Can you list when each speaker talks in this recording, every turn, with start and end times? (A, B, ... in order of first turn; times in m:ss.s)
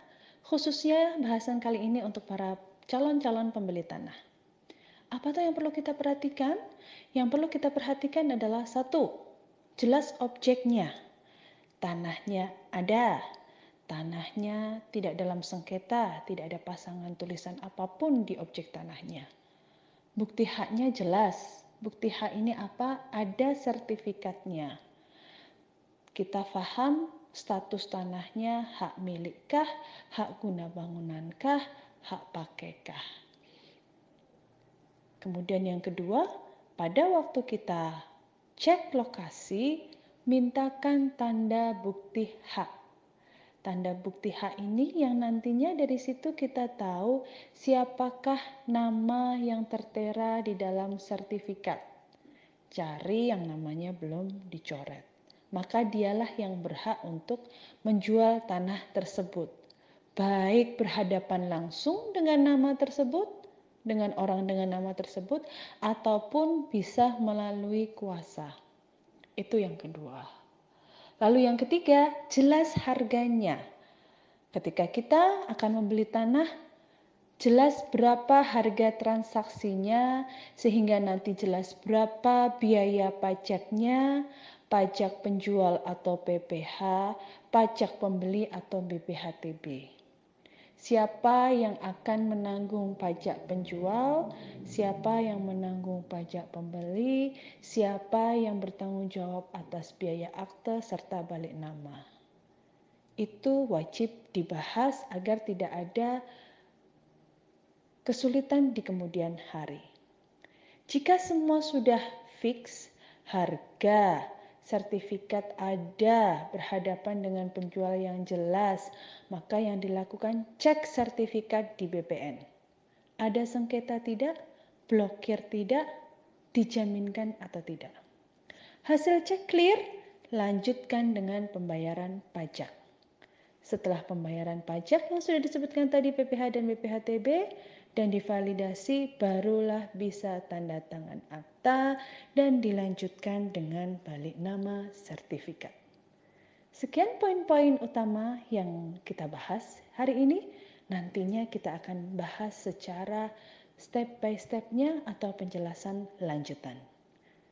0:00.4-0:04.2 A
0:05.1-0:06.6 A
0:07.1-0:09.1 A
0:09.8-0:10.9 A
0:11.8-0:13.2 A
0:13.9-0:19.3 A
0:20.2-0:24.7 A
0:26.2-0:33.0 A
0:35.2-0:36.2 A
0:36.8-0:37.9 A
0:38.6-0:42.7 A
0:43.6-0:51.8 A
0:52.7-0:59.5 A
1:00.2-1:03.3 A
1:03.9-1:08.5 A
1:09.4-1:10.3 A
1:11.2-1:13.6 A
1:14.5-1:16.5 A
1:17.4-1:20.0 A
1:20.6-1:24.0 A
1:24.7-1:29.8 A
1:30.8-1:42.0 A
1:43.2-1:46.2 A
1:48.0-1:49.8 A
1:50.9-2:02.4 A
2:03.2-2:04.3 A
2:04.9-2:05.8 A
2:06.5-2:08.0 A
2:08.8-2:09.8 A
2:10.3-2:12.7 A
2:13.6-2:25.7 A
2:26.8-2:33.3 A
2:33.8-2:36.8 A